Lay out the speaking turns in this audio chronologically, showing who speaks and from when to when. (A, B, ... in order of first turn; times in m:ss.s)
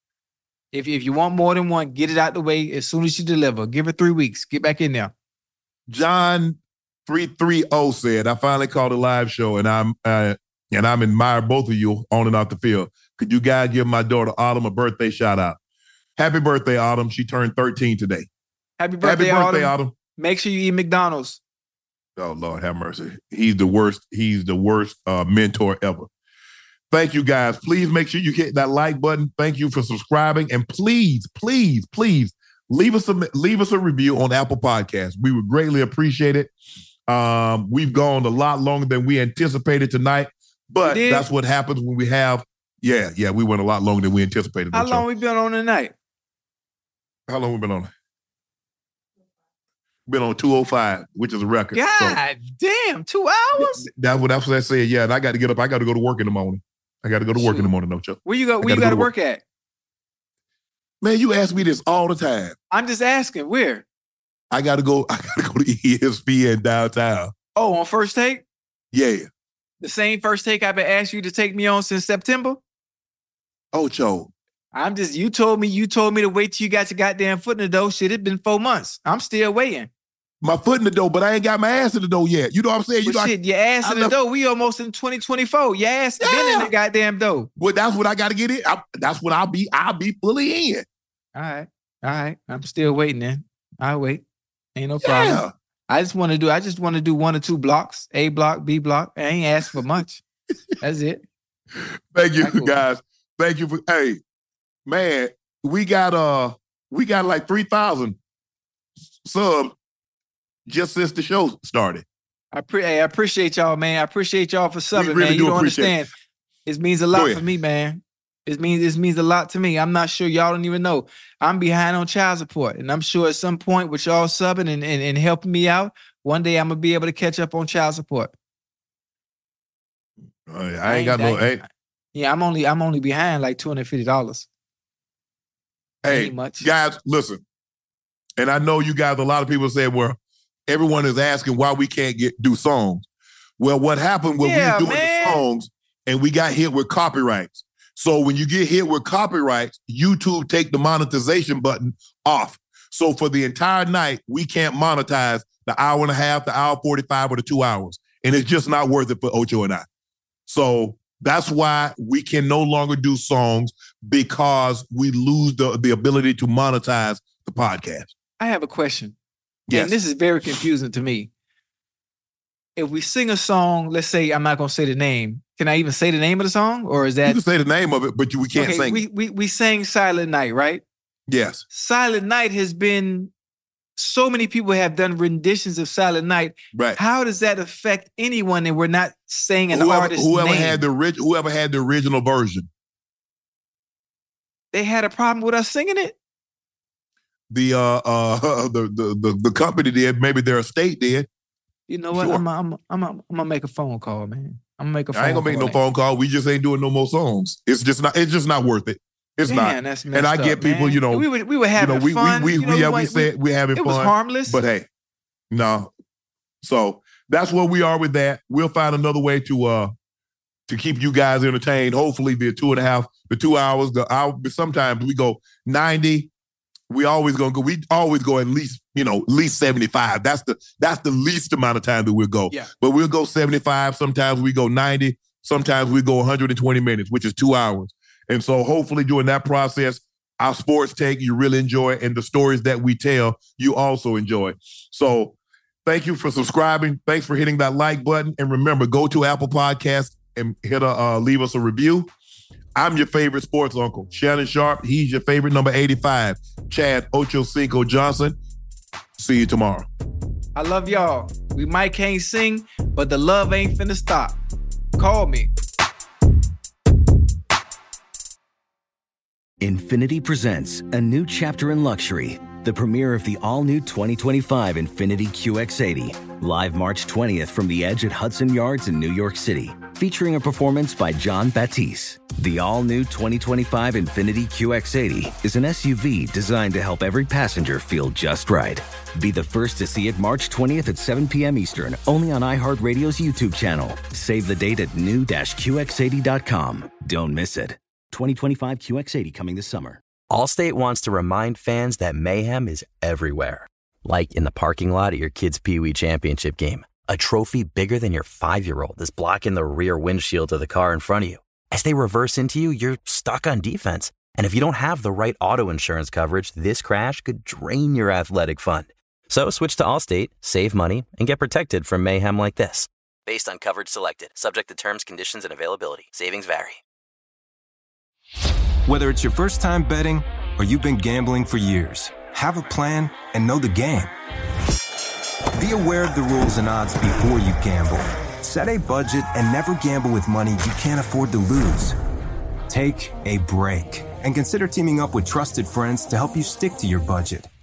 0:00.7-0:05.1 A
0:05.9-0:15.6 B
0:16.2-0:18.3 B
0:18.8-0:21.4 A
0:19.0-0:19.9 B
0:22.2-0:26.1 B
0:26.9-0:36.5 B
0:37.1-0:45.0 B
0:40.8-0:41.3 A
0:44.7-0:45.9 A
0:47.3-0:47.9 B
0:50.1-0:52.2 B
0:51.7-0:53.8 A
0:53.6-0:59.1 B
0:57.4-0:57.7 A
0:58.2-0:59.4 A
1:01.0-1:02.6 B
1:02.7-1:03.8 A
1:04.5-1:07.3 B
1:07.5-1:08.4 A
1:08.9-1:09.3 B
1:09.8-1:12.6 A
1:13.7-1:14.3 B
1:14.7-1:19.9 A
1:20.4-1:24.1 B
1:23.0-1:27.5 A
1:26.2-1:26.7 B
1:27.6-1:30.8 B
1:31.3-1:34.2 A
1:34.8-1:40.2 A
1:35.0-1:35.5 B
1:40.8-1:41.2 A
1:41.7-1:44.2 B
1:42.4-1:42.8 A
1:44.8-1:48.2 B
1:49.2-1:49.8 B
1:50.7-1:52.0 B
1:52.5-1:56.1 A
1:54.9-1:56.0 B
1:56.6-2:08.3 A
1:57.1-1:57.4 B
2:10.4-2:11.6 B
2:10.8-2:14.5 A
2:16.0-2:17.4 B
2:16.1-2:16.7 A
2:18.4-2:23.0 B
2:23.6-2:39.8 B
2:24.4-2:25.4 A
2:40.5-2:48.1 B
2:48.4-2:49.2 A
2:49.7-2:50.0 B
2:49.7-2:51.3 A
2:52.8-2:57.4 A
2:57.2-2:59.0 B
2:58.6-3:00.8 A
3:01.3-3:01.6 B
3:01.7-3:03.3 A
3:04.0-3:10.8 A
3:06.7-3:07.0 B
3:09.7-3:12.7 B
3:14.7-3:16.2 A
3:17.5-3:21.3 B
3:21.9-3:25.8 A
3:22.1-3:22.4 B
3:25.1-3:34.9 B
3:29.4-3:34.6 A
3:35.5-3:35.9 B
3:36.6-3:39.9 B
3:40.7-3:46.3 B
3:46.9-4:12.1 B
4:12.7-4:18.4 B
4:19.2-4:19.9 B
4:20.5-4:24.4 A
4:25.0-4:25.5 A
4:29.6-5:00.0 C
5:00.3-5:26.8 D
5:28.8-5:34.1 E
5:35.6-5:42.0 E
5:42.7-5:47.5 E